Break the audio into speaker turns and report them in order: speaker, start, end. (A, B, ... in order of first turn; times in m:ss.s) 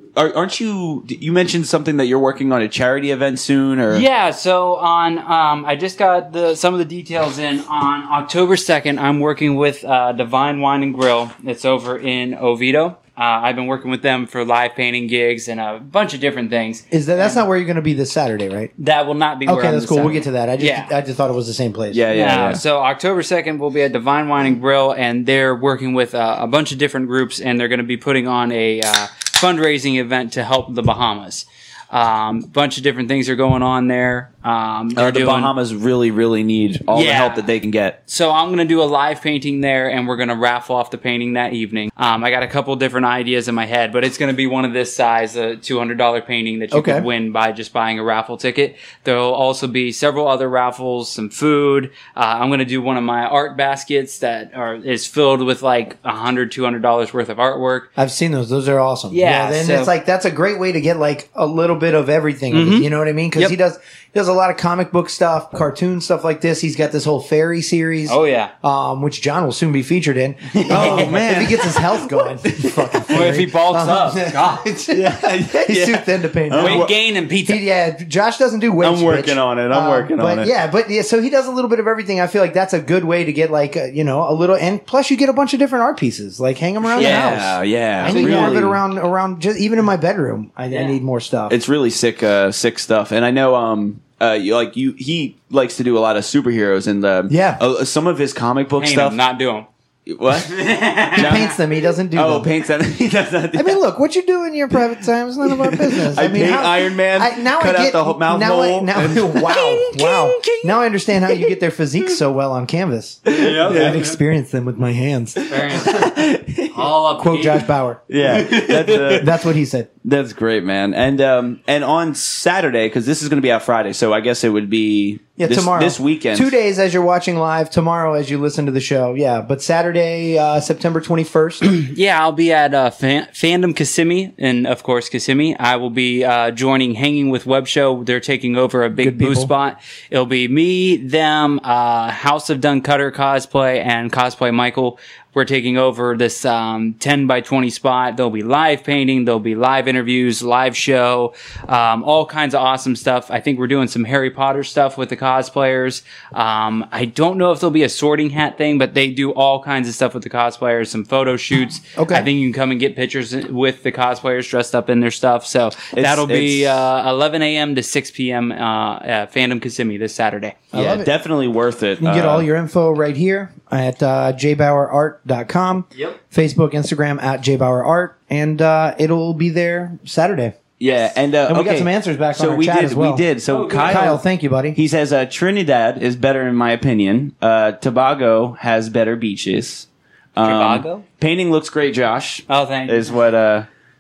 0:00.2-0:04.0 A
0:03.9-0:17.4 B
0:16.9-0:18.7 C
0:18.8-0:20.9 B
0:19.5-0:22.0 C
0:21.9-0:22.6 A
0:22.1-0:35.5 B
0:35.0-0:38.0 A
0:36.9-0:37.4 B
0:38.1-0:57.9 B
0:46.7-0:47.1 C
0:58.0-1:16.9 C
0:59.1-0:59.9 B
1:02.5-1:03.5 B
1:08.1-1:08.5 B
1:10.5-1:13.1 A
1:10.7-1:11.1 B
1:13.1-1:14.7 B
1:14.9-1:16.9 A
1:16.6-1:17.6 B
1:17.4-1:31.6 C
1:18.8-1:20.5 A
1:26.9-1:28.8 A
1:27.0-1:27.4 B
1:28.0-1:28.6 B
1:31.5-1:39.2 A
1:37.3-1:37.6 C
1:38.8-1:39.7 B
1:40.1-1:41.5 A
1:40.4-1:41.4 B
1:41.2-1:42.5 C
1:42.1-1:43.8 A
1:43.6-1:55.9 C
1:45.4-1:50.8 A
1:53.3-1:54.0 A
1:53.3-1:54.2 B
1:55.5-1:56.1 B
1:55.7-1:56.9 A
1:56.7-1:57.7 B
1:57.2-1:58.1 C
1:58.1-1:59.4 A
1:58.2-1:59.2 B
1:59.2-1:59.9 C
2:00.0-2:06.5 A
2:05.4-2:11.6 C
2:11.6-2:50.6 B
2:19.0-2:19.5 C
2:42.0-2:42.3 C
2:45.9-2:46.8 A
2:50.7-2:51.1 C
2:50.7-2:52.5 A
2:52.0-3:00.6 C
3:00.8-3:04.2 A
3:01.5-3:04.8 C
3:03.5-3:04.1 B
3:04.7-3:13.7 A
3:10.4-3:11.0 B
3:12.5-3:13.1 B